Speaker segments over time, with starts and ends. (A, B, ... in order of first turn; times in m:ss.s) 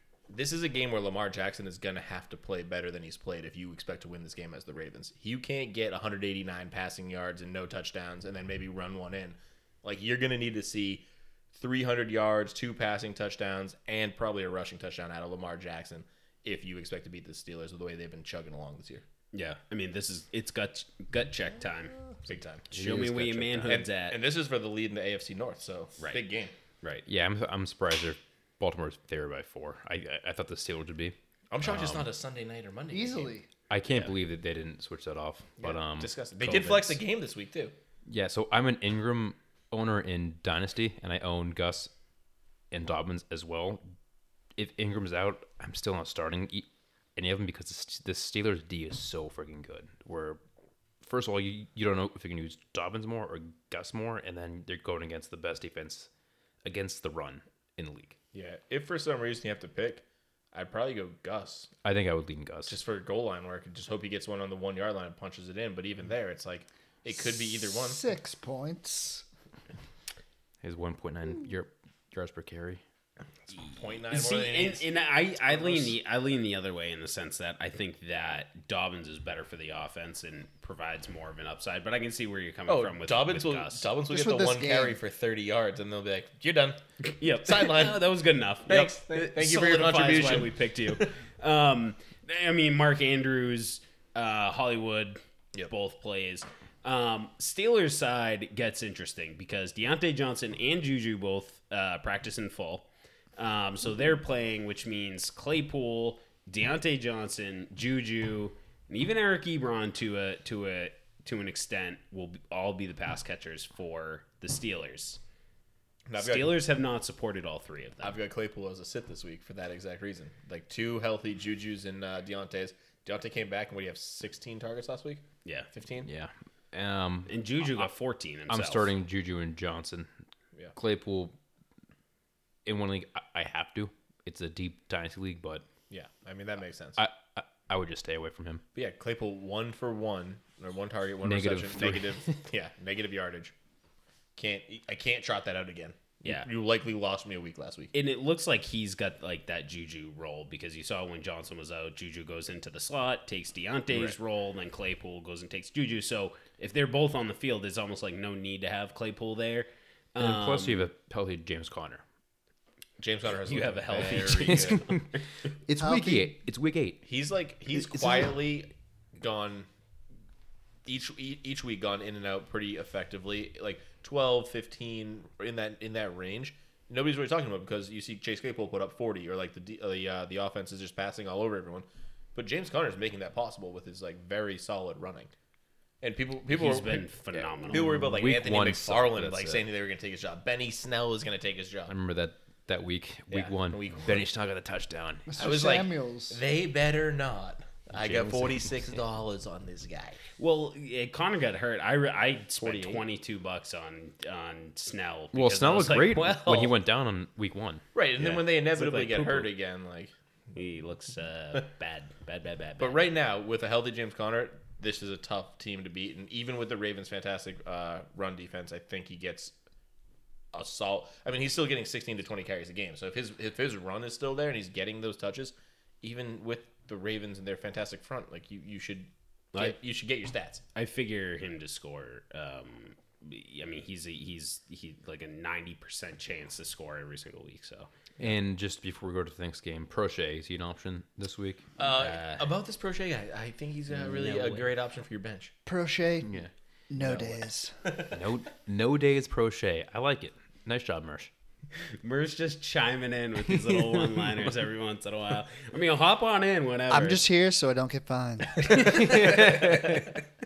0:00.3-0:19.0 A
0:19.3-0:21.9 B
0:22.2-0:22.7 A
0:22.7-0:23.8 C
0:22.7-0:24.2 B
0:23.6-0:26.5 A
0:27.0-0:32.1 C
0:31.5-0:33.3 A
0:32.9-0:33.5 D
0:33.7-0:36.8 C
0:33.9-0:34.2 A
0:35.6-0:37.7 A
0:38.1-0:41.9 C
0:42.7-0:43.8 C
0:44.6-0:50.4 C
0:51.0-0:56.1 C
0:56.6-0:58.2 C
0:58.3-1:01.7 A
1:01.8-1:02.8 C
1:02.7-1:08.0 A
1:07.6-1:09.2 D
1:10.6-1:12.8 C
1:13.7-1:14.8 A
1:14.0-1:23.9 B
1:15.5-1:16.0 A
1:22.7-1:28.1 A
1:24.1-1:25.0 D
1:27.0-1:55.2 B
1:28.6-1:31.0 A
1:56.1-1:56.6 A
1:56.2-1:58.2 B
1:58.0-2:06.1 A
2:06.0-2:07.9 C
2:07.3-2:08.9 B
2:08.5-2:10.1 C
2:10.7-2:11.4 C
2:12.6-2:15.6 C
2:15.9-2:17.0 A
2:17.0-2:18.6 C
2:18.7-2:23.5 A
2:21.2-2:22.4 C
2:24.4-2:27.9 A
2:27.9-2:40.9 B
2:33.9-2:34.2 A
2:40.2-2:42.0 C
2:43.0-2:44.8 A
2:43.4-2:45.2 B
2:44.0-2:45.0 C
2:45.7-2:47.0 C
2:45.7-2:46.3 D
2:47.0-2:49.7 A
2:47.7-2:48.3 C
2:50.8-3:05.3 A
3:06.0-3:11.9 A
3:06.5-3:08.0 B
3:07.7-3:09.6 C
3:11.9-3:15.3 C
3:13.3-3:14.3 A
3:15.2-3:16.4 D
3:15.4-3:20.2 A
3:17.9-3:18.9 C
3:20.4-3:26.7 B
3:22.6-3:23.0 A
3:25.3-3:27.8 C
3:27.9-3:30.1 A
3:28.8-3:29.5 C
3:30.5-3:33.0 B
3:32.8-3:39.5 A
3:40.5-3:50.6 A
3:50.7-3:57.9 B
3:58.2-4:01.6 C
4:01.8-4:05.5 A
4:01.9-4:02.5 B
4:03.9-4:04.7 B
4:05.6-4:07.8 D
4:06.2-4:06.5 C
4:07.0-4:08.1 A
4:08.1-4:11.3 C
4:11.9-4:17.2 B
4:13.6-4:13.9 C
4:16.9-4:19.1 D
4:18.6-4:20.0 B
4:18.7-4:20.2 C